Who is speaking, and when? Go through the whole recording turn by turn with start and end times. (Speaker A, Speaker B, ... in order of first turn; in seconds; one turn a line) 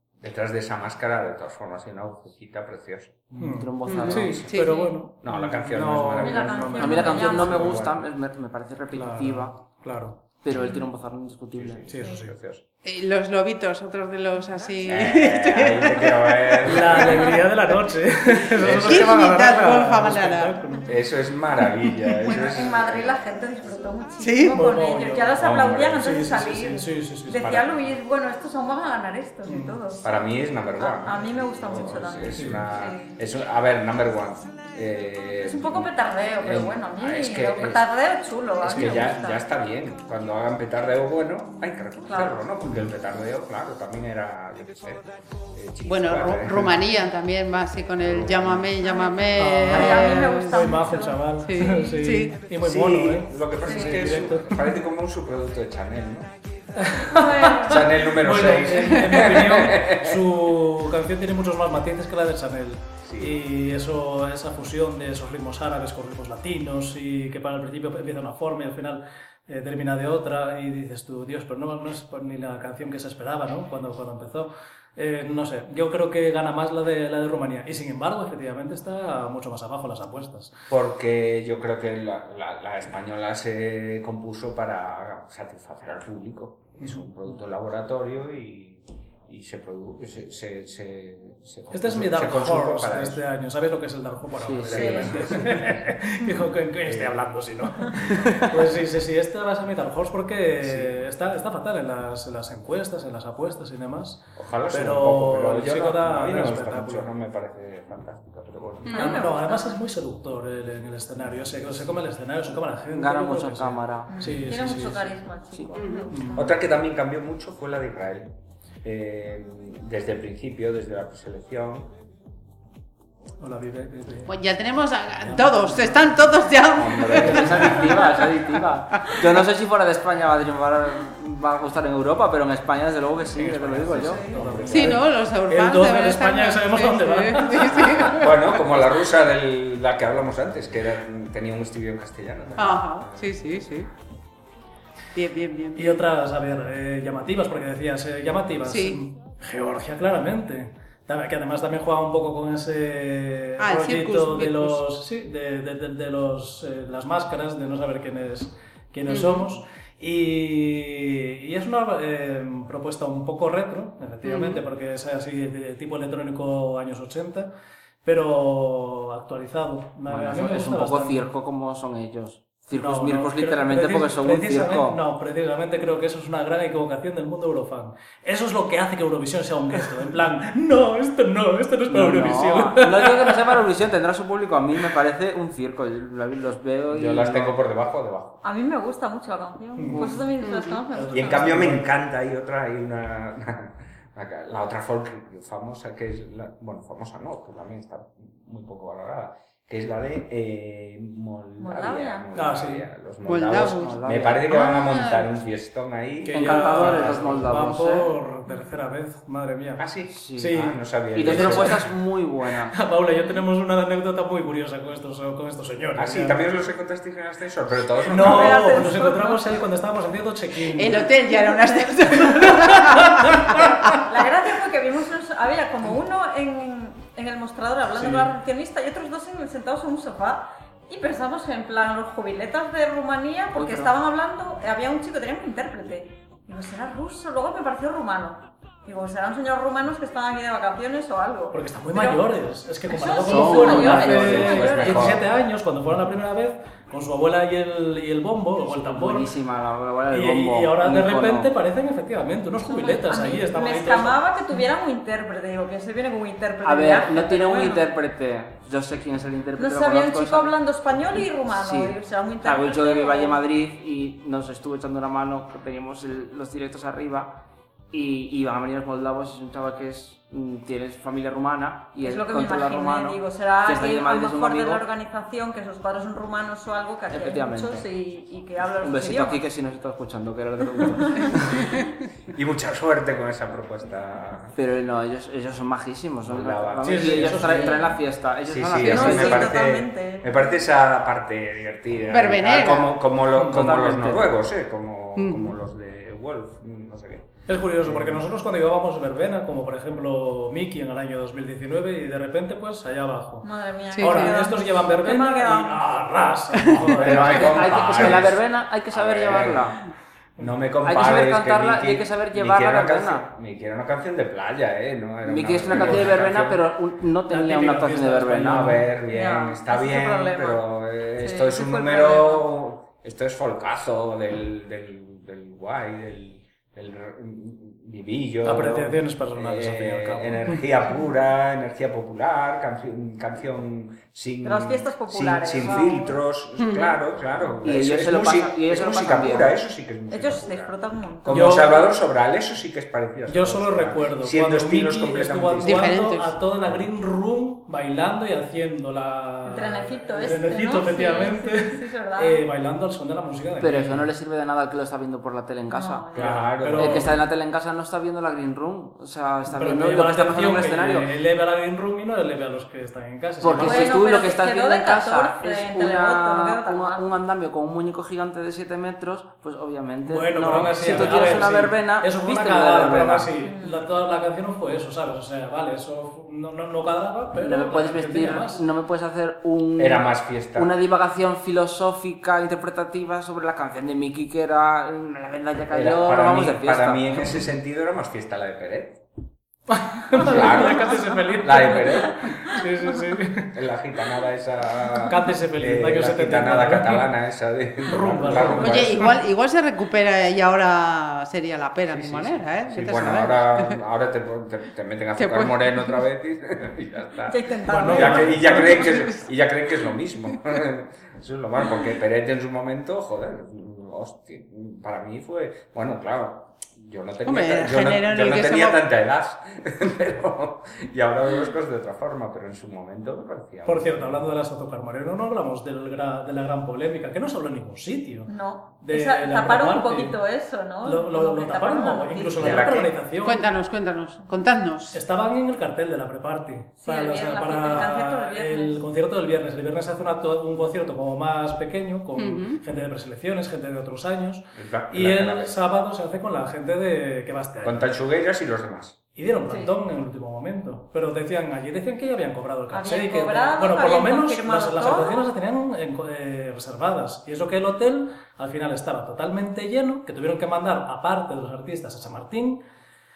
Speaker A: 0.2-3.3
Speaker B: 3.3-7.3
Speaker C: 3.4-4.4
Speaker D: 3.8-4.8
Speaker A: 3.9-4.6
Speaker E: 4.6-4.9
Speaker A: 5.2-8.0
Speaker E: 6.2-7.8
Speaker C: 6.8-9.6
Speaker B: 8.9-10.2
Speaker C: 10.4-11.8
Speaker E: 10.5-10.9
Speaker A: 11.5-12.6
Speaker B: 11.9-12.3
Speaker D: 12.8-17.7
Speaker A: 14.8-17.4
Speaker B: 16.6-20.9
Speaker D: 18.5-20.6
Speaker A: 18.6-19.2
Speaker A: 20.9-23.2
Speaker E: 22.2-30.0
Speaker D: 24.2-24.6
Speaker B: 24.4-25.4
Speaker A: 25.3-26.3
Speaker B: 25.9-27.5
Speaker A: 27.4-27.8
Speaker B: 29.4-29.8
Speaker A: 30.0-37.9
Speaker E: 30.8-33.2
Speaker B: 32.4-32.6
Speaker E: 35.4-39.4
Speaker B: 38.6-39.0
Speaker A: 38.6-46.9
Speaker E: 42.1-42.4
Speaker D: 45.9-50.8
Speaker A: 48.0-48.7
Speaker E: 48.8-51.9
Speaker B: 49.4-54.6
Speaker D: 51.4-52.4
Speaker A: 52.6-56.3
Speaker B: 56.8-80.5
Speaker E: 57.1-57.9
Speaker A: 57.6-60.3
Speaker A: 63.0-63.4
Speaker A: 80.7-93.2
Speaker B: 91.7-107.1
Speaker C: 94.4-95.1
Speaker A: 94.7-96.0
Speaker E: 94.7-95.1
Speaker A: 96.8-97.2
Speaker A: 100.6-101.0
Speaker A: 104.3-109.2
Speaker D: 108.9-109.2
Speaker E: 108.9-109.8
Speaker B: 108.9-115.1
Speaker C: 112.9-114.9
Speaker E: 114.1-116.5
Speaker C: 115.5-115.8
Speaker D: 115.7-116.1
Speaker B: 116.1-116.5
Speaker A: 116.3-121.9
Speaker B: 123.4-124.3
Speaker D: 124.3-129.3
Speaker B: 125.2-126.1
Speaker A: 126.7-127.9
Speaker C: 127.1-134.2
Speaker B: 127.2-127.7
Speaker B: 133.3-138.2
Speaker E: 134.1-134.3
Speaker A: 134.2-135.0
Speaker D: 134.7-138.6
Speaker A: 138.1-143.6
Speaker D: 142.6-143.9
Speaker D: 145.1-146.0
Speaker B: 145.7-167.5
Speaker D: 148.6-149.0
Speaker D: 153.6-154.8
Speaker D: 159.1-159.5
Speaker D: 164.2-164.6
Speaker B: 168.0-171.3
Speaker C: 170.1-175.0
Speaker B: 172.8-183.4
Speaker C: 181.9-187.6
Speaker A: 186.9-188.4
Speaker E: 188.4-191.6
Speaker B: 189.8-190.1
Speaker D: 190.4-190.8
Speaker B: 190.9-191.9
Speaker A: 191.1-207.4
Speaker E: 201.6-202.3
Speaker B: 202.3-202.8
Speaker D: 203.2-205.2
Speaker C: 203.5-204.4
Speaker B: 206.2-209.8
Speaker C: 206.3-208.1
Speaker E: 208.5-208.8
Speaker A: 209.8-211.9
Speaker C: 210.1-210.5
Speaker B: 210.3-211.8
Speaker C: 211.1-212.8
Speaker B: 212.7-216.4
Speaker E: 213.1-213.4
Speaker A: 215.9-218.8
Speaker B: 218.1-221.1
Speaker E: 218.2-219.6
Speaker D: 220.7-224.0
Speaker E: 221.4-221.7
Speaker B: 222.1-223.8
Speaker E: 224.0-242.3
Speaker B: 227.9-228.3
Speaker C: 233.5-233.9
Speaker B: 241.5-249.3
Speaker E: 242.9-245.1
Speaker C: 243.2-244.7
Speaker A: 244.2-245.2
Speaker C: 248.7-251.5
Speaker B: 250.1-254.2
Speaker E: 252.6-257.9
Speaker C: 256.6-260.6
Speaker E: 259.6-263.4
Speaker C: 261.5-267.4
Speaker C: 267.9-274.9
Speaker E: 272.0-279.4
Speaker C: 277.1-277.8
Speaker C: 278.7-281.8
Speaker E: 280.8-281.5
Speaker A: 282.3-284.6
Speaker C: 284.6-289.6
Speaker A: 286.2-287.6
Speaker B: 286.8-287.9
Speaker E: 287.6-287.9
Speaker A: 288.4-297.3
Speaker E: 288.9-290.6
Speaker D: 292.1-292.9
Speaker B: 293.3-293.6
Speaker C: 293.4-294.4
Speaker D: 295.1-295.6
Speaker B: 297.5-303.5
Speaker A: 297.8-298.2
Speaker E: 303.4-306.1
Speaker D: 303.9-304.4
Speaker B: 304.0-308.3
Speaker D: 306.5-307.0
Speaker A: 306.9-309.8
Speaker C: 307.3-309.8
Speaker A: 310.4-316.6
Speaker C: 310.8-313.3
Speaker C: 315.2-318.8
Speaker B: 315.8-316.1
Speaker B: 317.3-318.9
Speaker A: 318.4-346.0
Speaker E: 319.1-322.5
Speaker B: 328.4-330.6
Speaker E: 334.4-336.2
Speaker D: 336.6-337.0
Speaker C: 337.6-339.5
Speaker E: 340.1-341.8
Speaker B: 341.3-341.9
Speaker B: 343.3-354.1
Speaker D: 345.6-346.3
Speaker E: 349.4-352.4
Speaker C: 353.6-356.1
Speaker E: 355.7-356.4
Speaker A: 356.1-357.1
Speaker B: 356.2-357.2
Speaker C: 356.7-361.1
Speaker B: 359.5-364.0
Speaker C: 363.4-373.3
Speaker E: 363.6-367.1
Speaker B: 370.1-378.6
Speaker E: 373.4-373.9
Speaker C: 377.4-387.3
Speaker A: 379.8-380.7
Speaker A: 385.7-389.0
Speaker B: 389.7-393.5
Speaker A: 390.1-392.2
Speaker A: 393.5-399.1
Speaker B: 395.1-397.1
Speaker B: 397.9-399.1
Speaker D: 398.3-403.8
Speaker A: 401.9-424.2
Speaker D: 405.2-406.0
Speaker E: 407.3-409.0
Speaker B: 407.7-408.8
Speaker D: 408.8-409.2
Speaker D: 417.2-418.8
Speaker B: 423.6-428.3
Speaker E: 428.3-432.7
Speaker B: 428.8-430.2
Speaker B: 430.8-433.4
Speaker A: 432.4-432.9
Speaker D: 433.2-435.0
Speaker B: 434.9-447.9
Speaker E: 436.8-438.8
Speaker D: 442.2-442.6
Speaker A: 444.5-445.6
Speaker A: 447.6-449.0
Speaker B: 449.1-462.6
Speaker E: 452.7-455.3